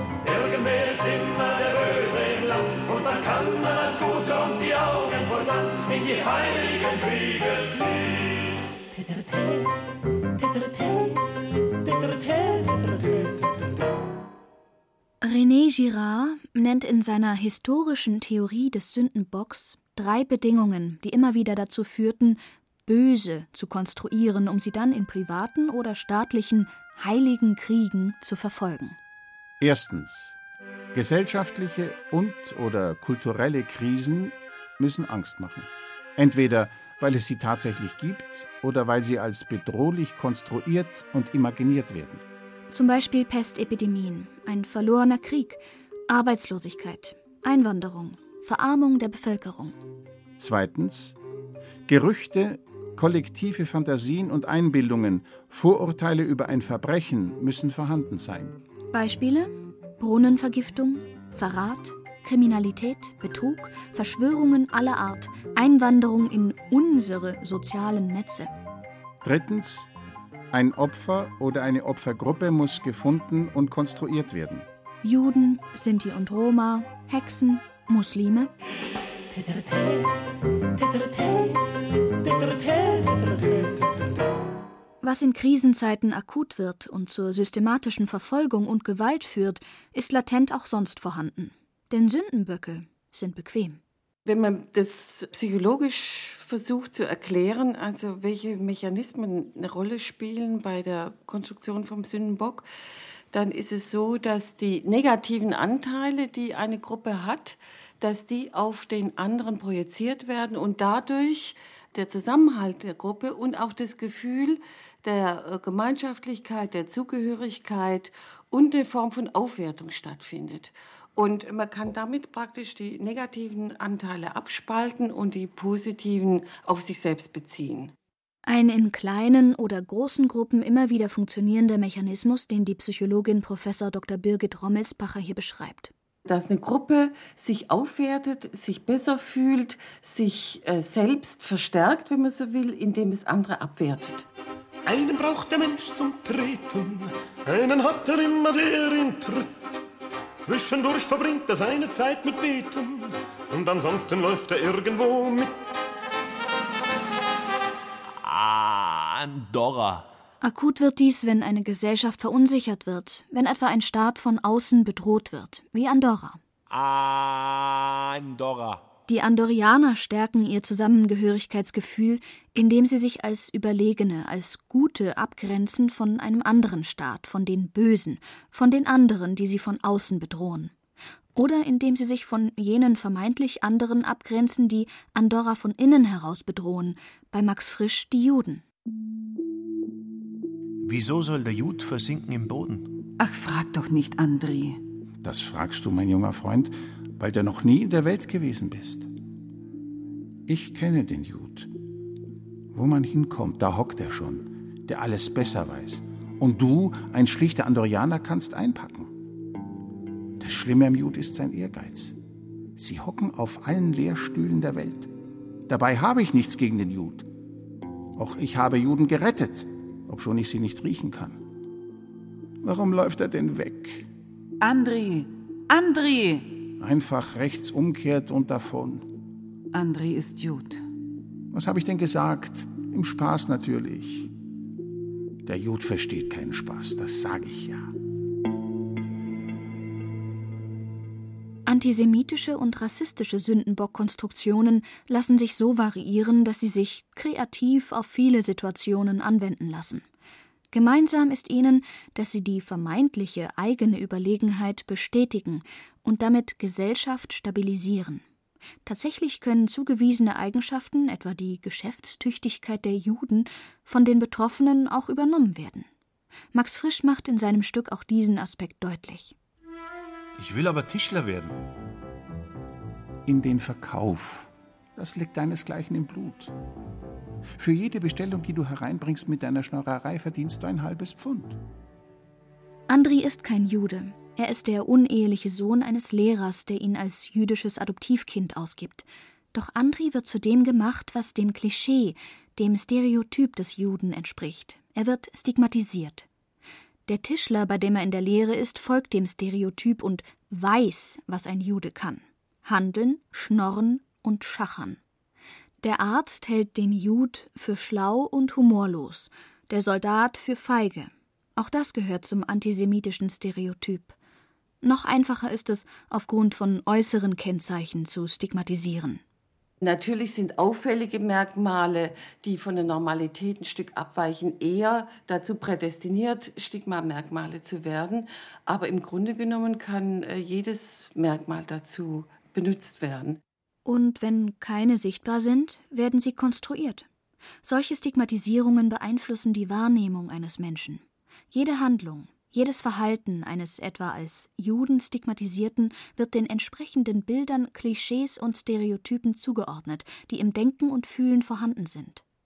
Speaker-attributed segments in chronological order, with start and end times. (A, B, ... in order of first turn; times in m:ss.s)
0:00.2-0:08.2 A
0:10.8-0:11.0 A
0:12.0-0:13.3 A
0:15.2-0:29.0 B
0:29.6-0:30.4 C
0:30.9-0:42.2 C
0:42.7-0:49.8 B
0:50.4-0:51.2 C
0:51.9-0:58.6 C
0:58.9-1:08.5 B
1:09.2-1:09.9 C
1:10.5-1:14.7 C
1:15.0-1:18.5 B
1:25.0-1:33.8 B
1:34.2-1:42.6 D
1:43.3-2:07.9 D
2:08.4-2:15.9 B
2:16.3-2:24.2 D
2:24.8-2:29.5 A
2:30.4-2:35.5 A
2:38.2-2:40.1 E
2:40.4-2:46.4 B
2:46.7-2:48.8 E
2:49.1-3:00.7 B
3:01.3-3:08.6 B
3:10.8-3:12.9 E
3:13.2-3:14.8 F
3:15.2-3:19.1 C
3:20.5-3:21.7 C
3:22.7-3:29.1 C
3:30.4-3:32.2 C
3:32.8-3:35.1 C
3:35.7-3:37.3 C
3:38.1-3:41.4 C
3:42.6-3:44.1 C
3:44.6-3:46.6 F
3:46.8-3:49.1 C
3:49.7-3:50.8 F
3:51.5-3:54.3 C
3:55.4-3:57.9 C
4:01.6-4:10.0 B
4:10.7-4:18.2 B
4:18.8-4:25.9 B
4:26.5-4:29.3 B
4:30.4-4:31.6 E
4:33.2-4:36.5 C
4:37.6-4:41.6 C
4:42.9-4:56.3 B
4:57.1-5:05.0 B
5:05.8-5:14.2 B
5:14.8-5:19.2 B
5:19.8-5:33.4 D
5:33.8-5:37.1 B
5:37.6-5:52.2 B